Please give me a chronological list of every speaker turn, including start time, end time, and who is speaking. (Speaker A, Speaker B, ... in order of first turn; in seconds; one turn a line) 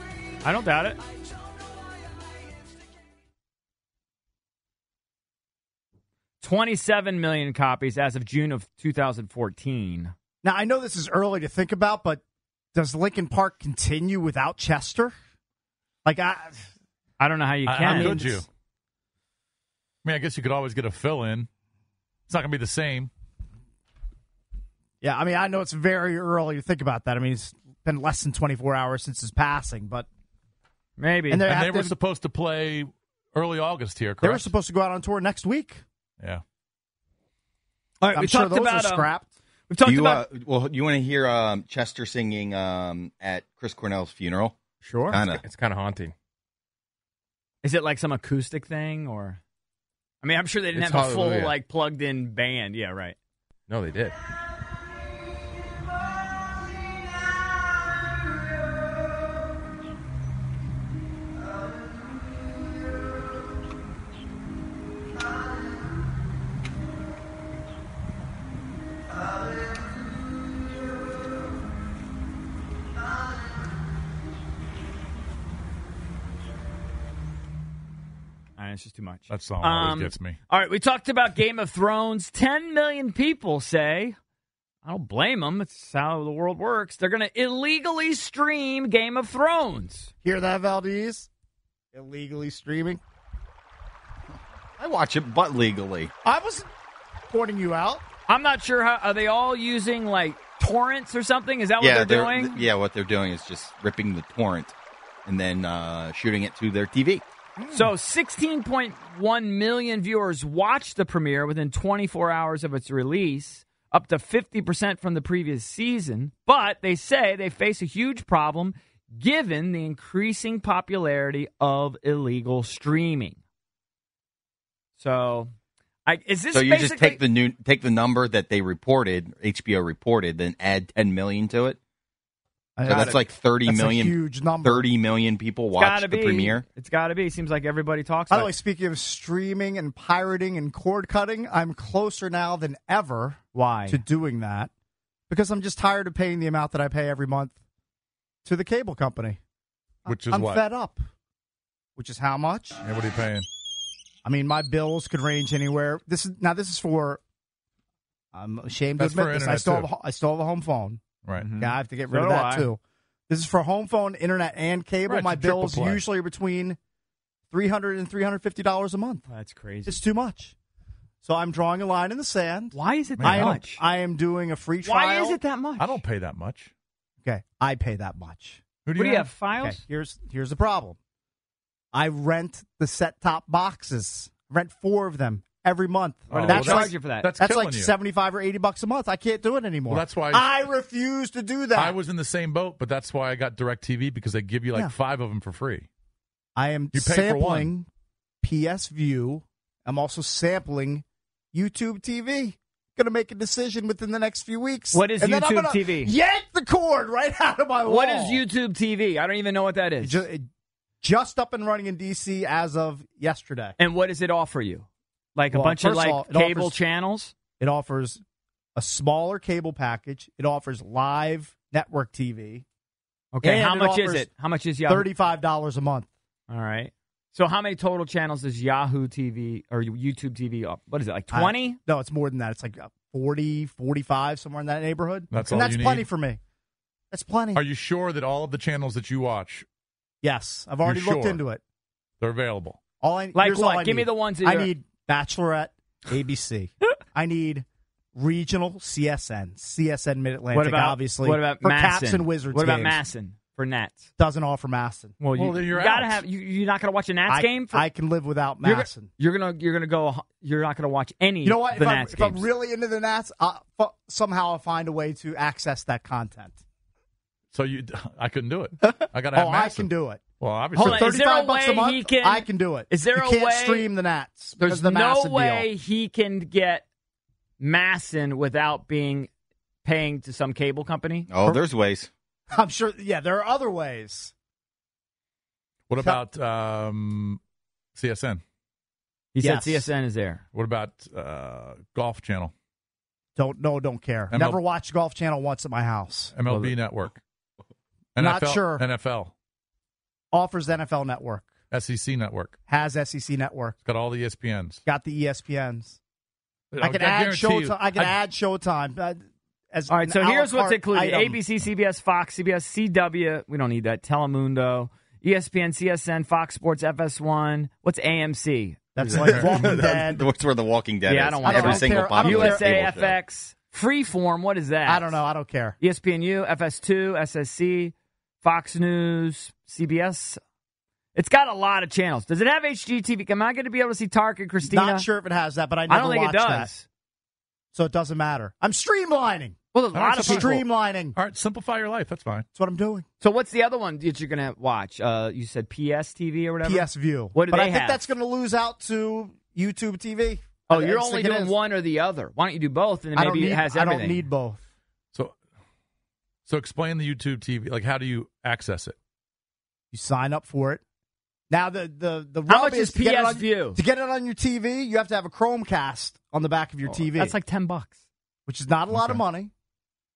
Speaker A: 0.4-1.0
Speaker A: 6.4-10.1
Speaker B: 10.4-12.2
Speaker B: 12.7-15.1
Speaker B: 16.0-16.7
Speaker A: 17.2-18.2
Speaker C: 17.6-18.5
Speaker B: 17.8-18.4
Speaker C: 20.0-21.5
Speaker C: 22.3-23.1
Speaker B: 25.0-30.1
Speaker A: 31.0-31.4
Speaker B: 31.3-31.9
Speaker C: 31.4-34.5
Speaker B: 34.2-35.8
Speaker A: 38.0-39.1
Speaker B: 38.1-39.3
Speaker A: 39.7-40.2
Speaker D: 39.8-44.5
Speaker A: 44.8-45.2
Speaker D: 45.1-45.4
Speaker E: 45.2-46.1
Speaker A: 47.6-49.4
Speaker A: 50.2-53.2
Speaker E: 50.7-51.6
Speaker E: 53.7-54.1
Speaker A: 78.6-84.2
Speaker C: 79.3-80.4
Speaker A: 84.8-90.1
Speaker B: 90.2-91.3
Speaker B: 91.9-93.0
Speaker D: 94.8-96.1
Speaker B: 96.2-96.7
Speaker B: 97.3-98.0
Speaker A: 98.3-102.6
Speaker D: 101.8-104.7
Speaker D: 105.2-107.2
Speaker A: 107.7-123.4
Speaker A: 125.0-125.5
Speaker A: 126.0-127.2
Speaker D: 126.5-131.8
Speaker B: 132.8-134.8
Speaker D: 132.9-136.6
Speaker A: 132.9-133.2
Speaker A: 135.8-138.5
Speaker B: 138.3-144.7
Speaker A: 143.5-144.0
Speaker B: 145.3-147.6
Speaker B: 148.4-149.4
Speaker B: 150.1-151.0
Speaker C: 150.1-150.7
Speaker B: 152.0-152.8
Speaker C: 152.8-153.5
Speaker B: 154.2-157.2
Speaker B: 158.3-161.0
Speaker C: 159.0-159.9
Speaker C: 161.2-161.5
Speaker A: 161.3-162.7
Speaker B: 161.6-166.8
Speaker C: 165.1-166.0
Speaker B: 167.5-169.2
Speaker A: 169.3-170.0
Speaker B: 169.8-170.5
Speaker B: 171.2-175.4
Speaker A: 172.7-173.8
Speaker C: 173.2-173.6
Speaker A: 174.8-176.0
Speaker C: 175.8-176.7
Speaker B: 177.2-178.6
Speaker C: 178.8-179.3
Speaker A: 178.9-179.8
Speaker B: 179.6-181.0
Speaker B: 181.9-192.0
Speaker C: 186.3-187.9
Speaker A: 186.4-187.3
Speaker C: 189.9-190.5
Speaker C: 191.7-195.9
Speaker B: 196.6-197.9
Speaker C: 196.9-197.7
Speaker B: 198.4-208.4
Speaker A: 204.9-206.1
Speaker A: 207.8-210.2
Speaker B: 210.0-210.4
Speaker B: 211.0-213.8
Speaker A: 213.8-217.3
Speaker B: 215.5-216.8
Speaker B: 217.6-218.2
Speaker B: 218.8-222.6
Speaker A: 223.3-225.1
Speaker B: 223.4-224.3
Speaker B: 224.9-226.1
Speaker A: 226.5-231.8
Speaker B: 231.3-236.4
Speaker C: 235.3-236.1
Speaker B: 237.1-237.6
Speaker C: 237.5-239.7
Speaker B: 240.2-241.6
Speaker C: 240.8-241.4
Speaker C: 242.2-242.8
Speaker B: 243.0-253.0
Speaker A: 243.3-244.7
Speaker A: 250.5-254.0
Speaker B: 254.2-255.2
Speaker A: 255.2-257.8
Speaker C: 255.3-256.2
Speaker B: 257.3-259.1
Speaker A: 258.6-262.5
Speaker B: 261.4-266.6
Speaker C: 267.5-271.2
Speaker B: 268.8-270.2
Speaker B: 270.7-275.7
Speaker A: 270.8-273.9
Speaker A: 274.6-276.8
Speaker A: 277.6-279.3
Speaker A: 279.8-281.3
Speaker D: 281.3-282.1
Speaker B: 282.5-284.3
Speaker C: 285.9-287.4
Speaker C: 287.9-288.4
Speaker A: 289.3-290.4
Speaker B: 289.4-289.9
Speaker C: 290.5-292.5
Speaker B: 293.4-296.4
Speaker C: 294.3-294.6
Speaker C: 296.3-297.2
Speaker A: 296.5-296.7
Speaker C: 298.1-299.3
Speaker B: 298.2-298.9
Speaker B: 300.3-301.5
Speaker C: 301.7-302.6
Speaker B: 302.7-303.8
Speaker C: 303.8-304.8
Speaker B: 304.8-306.0
Speaker C: 306.7-308.2
Speaker B: 306.8-311.4
Speaker A: 309.9-319.5
Speaker B: 318.9-320.2
Speaker C: 319.2-319.5
Speaker D: 319.4-323.2
Speaker A: 321.1-325.2
Speaker B: 321.4-322.8
Speaker B: 324.8-325.8
Speaker A: 325.8-330.4
Speaker A: 331.1-335.1
Speaker B: 334.6-336.7
Speaker A: 335.9-336.8
Speaker B: 337.7-339.6
Speaker A: 339.7-340.6
Speaker C: 339.9-340.6
Speaker B: 340.1-341.1
Speaker C: 341.1-342.4
Speaker B: 342.5-343.0
Speaker A: 343.2-348.0
Speaker B: 346.6-351.5
Speaker A: 350.7-354.3
Speaker B: 353.1-354.6
Speaker C: 356.4-358.9
Speaker B: 359.9-360.8
Speaker B: 361.5-367.4
Speaker A: 362.5-363.8
Speaker A: 366.8-367.9
Speaker B: 368.5-369.5
Speaker C: 368.9-369.2